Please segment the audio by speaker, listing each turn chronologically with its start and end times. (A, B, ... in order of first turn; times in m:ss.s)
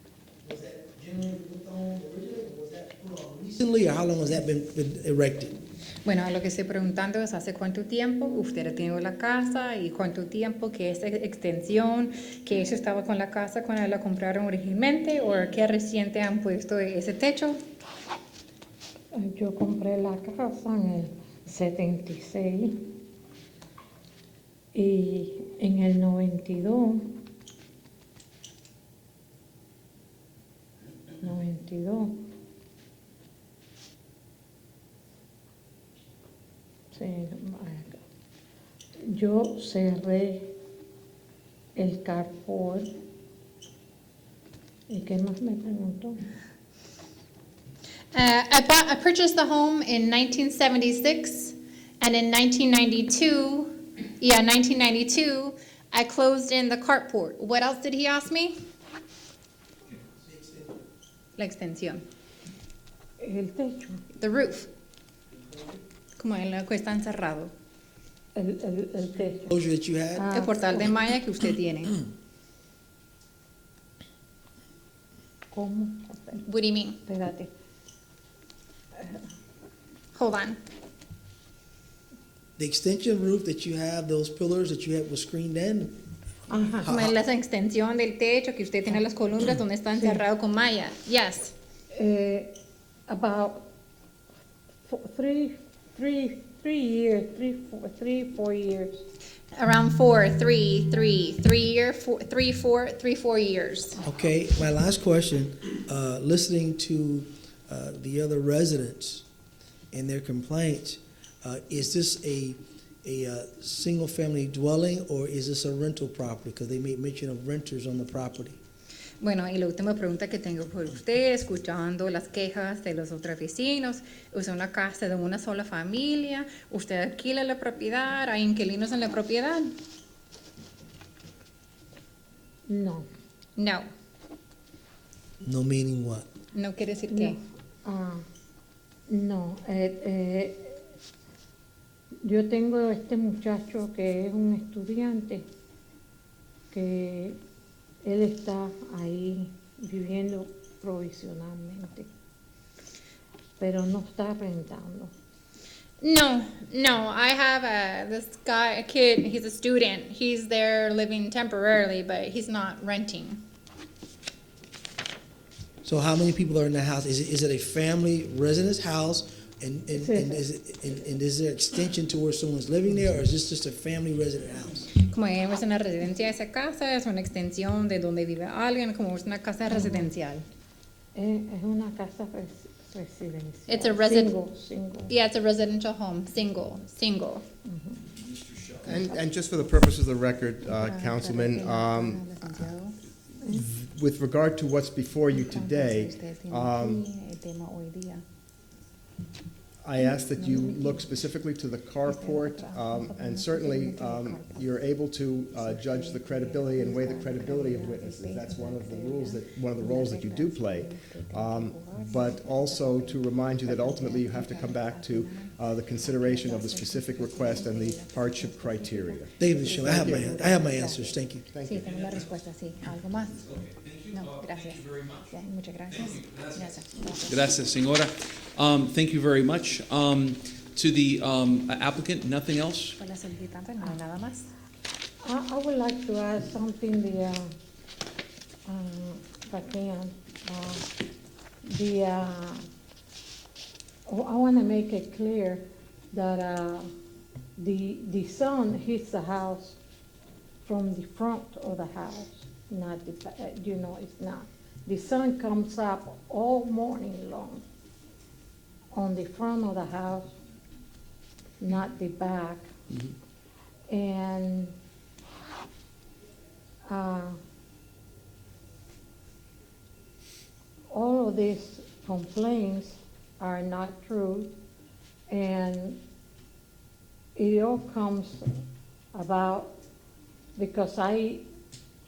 0:00.4-0:05.6 A
0:06.0-0:17.6 B
0:19.1-0:22.9 C
0:24.7-0:27.1 C
0:31.2-0:32.3 C
0:36.9-0:38.0 C
0:39.0-0:40.5 C
0:41.8-0:42.9 C
0:44.9-0:46.2 C
0:48.1-0:58.5 B
1:00.2-1:00.8 A
1:01.4-1:02.0 B
1:03.2-1:04.0 C
1:04.1-1:04.7 B
1:05.3-1:05.8 A
1:06.2-1:07.5 B
1:08.4-1:09.6 C
1:09.5-1:10.3 A
1:10.2-1:10.9 C
1:10.3-1:12.0 B
1:15.5-1:16.4 C
1:16.4-1:17.0 B
1:17.0-1:17.5 C
1:20.2-1:20.6 B
1:22.6-1:26.0 A
1:26.5-1:26.9 C
1:26.8-1:27.2 A
1:26.8-1:31.5 B
1:29.9-1:30.2 C
1:31.9-1:32.6 C
1:33.1-1:33.7 C
1:34.9-1:39.0 C
1:39.6-1:44.0 B
1:44.0-1:49.2 A
1:49.9-1:58.6 A
1:59.2-2:09.7 B
2:12.7-2:13.1 C
2:13.6-2:13.9 B
2:15.4-2:16.3 A
2:16.5-2:17.4 B
2:17.1-2:18.2 C
2:19.1-2:20.8 C
2:22.2-2:25.4 C
2:26.7-2:27.4 C
2:28.0-2:32.1 C
2:33.6-2:35.1 C
2:36.0-2:43.4 B
2:45.8-2:54.9 A
2:49.9-2:50.5 C
2:55.0-3:00.4 B
2:59.7-3:00.1 C
3:01.2-3:05.1 C
3:03.7-3:04.4 B
3:05.1-3:07.4 B
3:07.6-3:08.1 C
3:08.2-3:08.8 D
3:08.8-3:09.2 C
3:08.8-3:12.8 E
3:10.6-3:13.0 B
3:13.4-3:13.7 C
3:13.6-3:17.1 E
3:15.3-3:18.2 B
3:19.8-3:40.6 E
3:20.0-3:21.1 B
3:22.1-3:24.8 B
3:25.5-3:43.4 B
3:39.4-3:41.4 A
3:41.5-3:42.0 E
3:41.9-3:42.3 D
3:43.3-3:53.0 D
3:44.1-3:47.4 B
3:53.0-3:54.5 B
3:55.2-3:57.5 C
3:58.7-4:00.9 C
4:01.7-4:02.6 C
4:04.1-4:06.9 C
4:07.6-4:09.8 C
4:10.6-4:17.6 C
4:18.9-4:20.3 C
4:21.6-4:22.7 C
4:23.9-4:24.7 C
4:26.9-4:27.4 C
4:30.9-4:34.5 C
4:35.3-4:36.0 C
4:37.4-4:38.5 C
4:39.1-4:39.8 C
4:40.6-4:41.4 C